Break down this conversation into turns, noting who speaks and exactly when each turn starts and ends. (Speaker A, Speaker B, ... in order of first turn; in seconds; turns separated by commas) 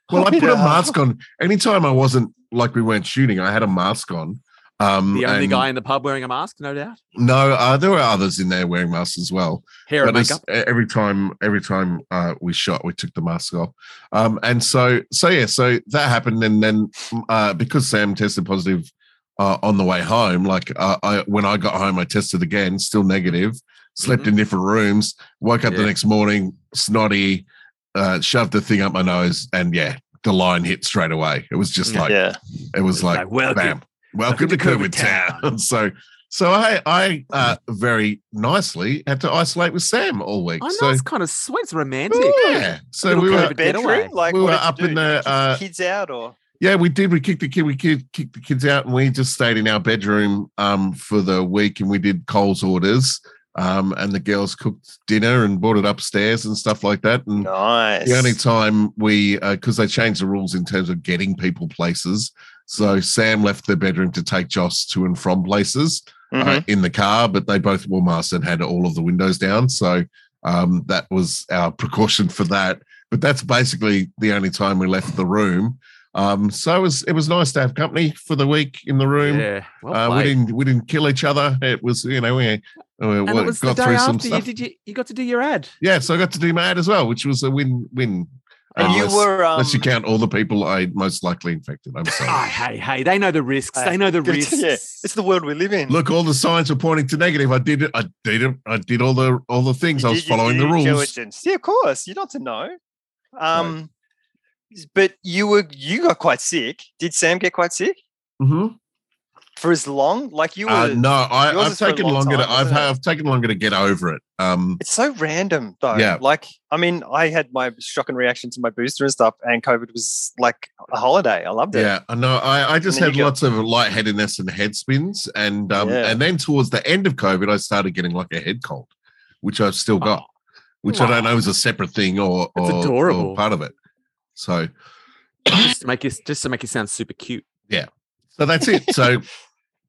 Speaker A: 0.1-5.7, Speaker B: 0.1-1.0, Speaker C: 5.1-7.0, Speaker A: 7.2-32.2, Speaker C: 9.9-10.4, Speaker C: 24.0-24.3, Speaker B: 32.0-32.4, Speaker A: 32.7-41.0, Speaker C: 33.0-33.8, Speaker C: 34.3-35.5, Speaker C: 40.6-42.5, Speaker B: 42.1-42.6, Speaker A: 42.2-43.6, Speaker C: 43.0-44.1, Speaker B: 43.2-46.4, Speaker A: 44.3-45.6, Speaker A: 46.6-57.5, Speaker B: 57.4-58.4, Speaker A: 58.0-84.5, Speaker B: 66.3-66.7, Speaker C: 79.2-80.3, Speaker C: 83.3-85.7, Speaker A: 85.8-92.4, Speaker B: 88.8-89.9, Speaker C: 92.2-95.0, Speaker B: 93.8-96.0, Speaker A: 95.9-101.1, Speaker B: 100.0-102.7, Speaker B: 103.4-103.9, Speaker B: 104.8-108.0, Speaker A: 108.4-108.8, Speaker B: 109.6-112.9, Speaker A: 110.7-114.8, Speaker B: 114.8-121.9, Speaker A: 115.9-116.2, Speaker A: 121.7-128.9, Speaker B: 122.9-123.3, Speaker B: 125.8-126.2, Speaker A: 129.4-130.2, Speaker A: 130.8-133.7, Speaker C: 130.9-131.3, Speaker C: 132.6-133.4, Speaker A: 134.4-134.7, Speaker C: 135.5-137.4, Speaker A: 137.7-139.3